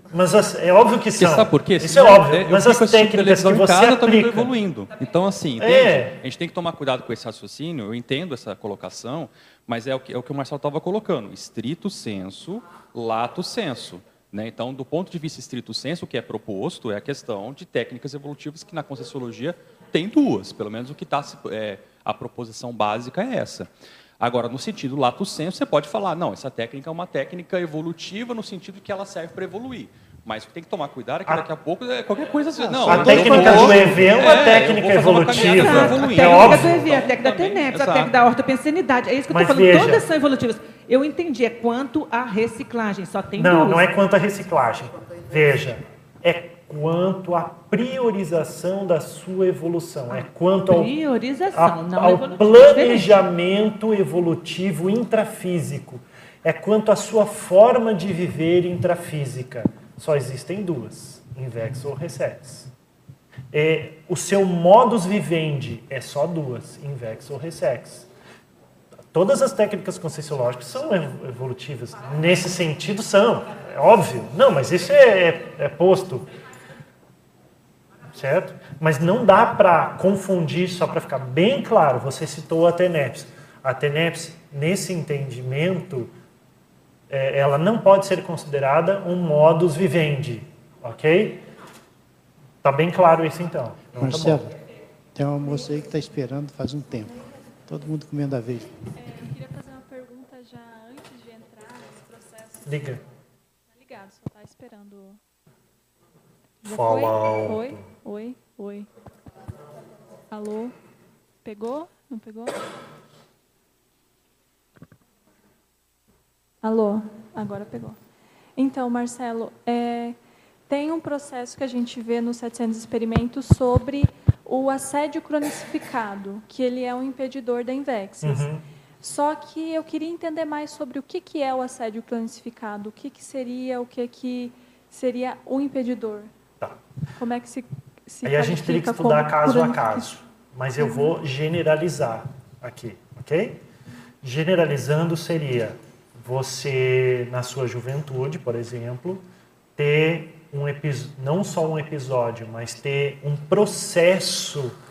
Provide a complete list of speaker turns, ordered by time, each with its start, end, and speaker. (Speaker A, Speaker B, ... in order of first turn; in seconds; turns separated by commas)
Speaker A: 0.1-4.5, Speaker B: 1.1-38.1, Speaker A: 5.6-6.2, Speaker A: 32.8-36.9, Speaker C: 33.0-33.4, Speaker C: 35.4-43.9, Speaker A: 39.3-40.0, Speaker A: 43.4-50.9, Speaker C: 50.1-53.2, Speaker A: 51.5-62.7, Speaker A: 63.5-68.1, Speaker A: 69.1-76.3, Speaker A: 78.1-86.1, Speaker A: 87.1-91.4, Speaker A: 92.6-94.5, Speaker D: 94.0-94.5, Speaker D: 95.1-98.8, Speaker E: 98.9-102.8, Speaker A: 102.6-103.0, Speaker E: 103.7-105.2, Speaker E: 106.6-108.9, Speaker A: 106.7-107.9, Speaker E: 110.3-110.7, Speaker E: 111.4-112.6, Speaker E: 116.6-118.0, Speaker E: 118.5-120.2, Speaker E: 120.7-128.5, Speaker A: 128.2-128.6, Speaker E: 129.0-136.3, Speaker E: 137.1-140.1, Speaker A: 138.2-143.6, Speaker E: 140.8-141.1, Speaker A: 144.2-149.2, Speaker A: 149.8-154.7